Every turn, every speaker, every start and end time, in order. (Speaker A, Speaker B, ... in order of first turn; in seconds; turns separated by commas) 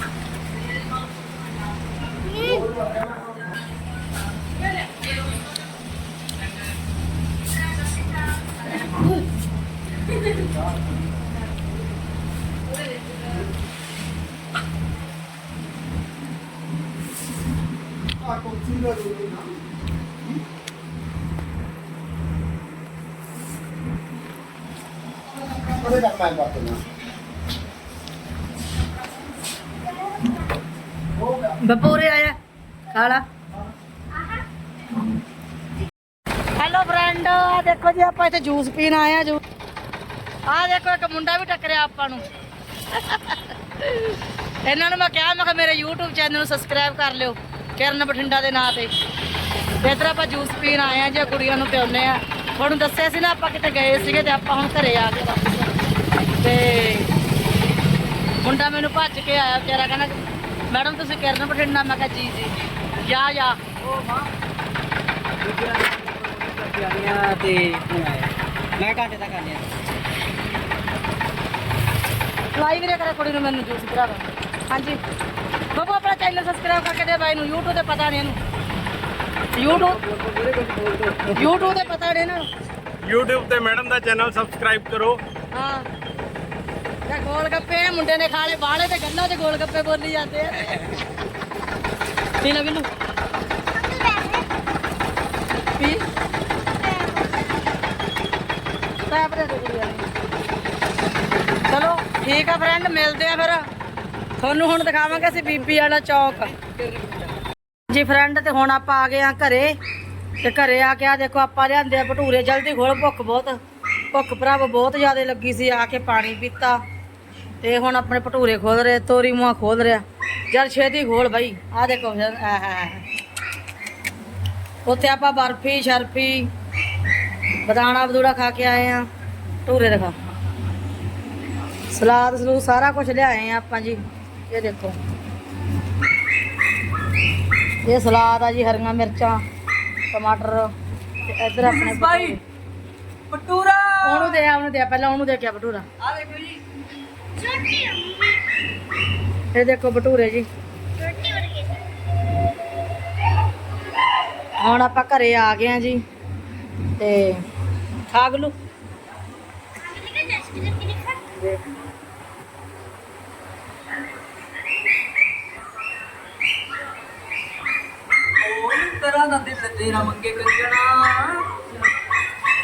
Speaker A: 2.1-3.0, Speaker B: 18.3-19.4, Speaker B: 25.8-26.8, Speaker A: 30.1-30.4, Speaker C: 31.4-32.4, Speaker C: 32.9-33.2, Speaker C: 36.6-39.4, Speaker C: 40.5-42.3, Speaker C: 42.9-48.9, Speaker C: 49.8-57.1, Speaker C: 58.4-63.6, Speaker D: 63.8-64.3, Speaker D: 65.4-69.7, Speaker C: 72.5-75.0, Speaker C: 75.7-78.4, Speaker C: 79.5-80.0, Speaker D: 79.9-81.7, Speaker C: 81.3-82.5, Speaker E: 83.0-85.2, Speaker C: 85.5-85.9, Speaker C: 87.1-91.1, Speaker C: 92.4-92.9, Speaker A: 93.7-94.6, Speaker C: 95.8-96.0, Speaker A: 96.7-97.8, Speaker C: 99.1-100.1, Speaker C: 101.7-103.7, Speaker C: 104.4-106.8, Speaker D: 106.5-107.1, Speaker C: 107.9-109.7, Speaker C: 110.4-113.6, Speaker C: 114.1-116.8, Speaker C: 117.6-123.1, Speaker C: 124.8-126.5, Speaker C: 127.6-129.1, Speaker C: 129.7-130.2, Speaker C: 131.9-135.0, Speaker C: 137.8-139.4, Speaker C: 140.1-142.4, Speaker D: 141.6-142.4, Speaker D: 143.3-144.4, Speaker C: 144.0-145.9, Speaker D: 146.0-146.6, Speaker A: 147.4-148.5, Speaker C: 149.5-150.5, Speaker A: 151.0-151.9, Speaker C: 154.6-156.0, Speaker C: 157.0-157.4, Speaker C: 158.1-158.6, Speaker A: 159.8-161.2, Speaker C: 161.3-161.6, Speaker D: 168.4-171.6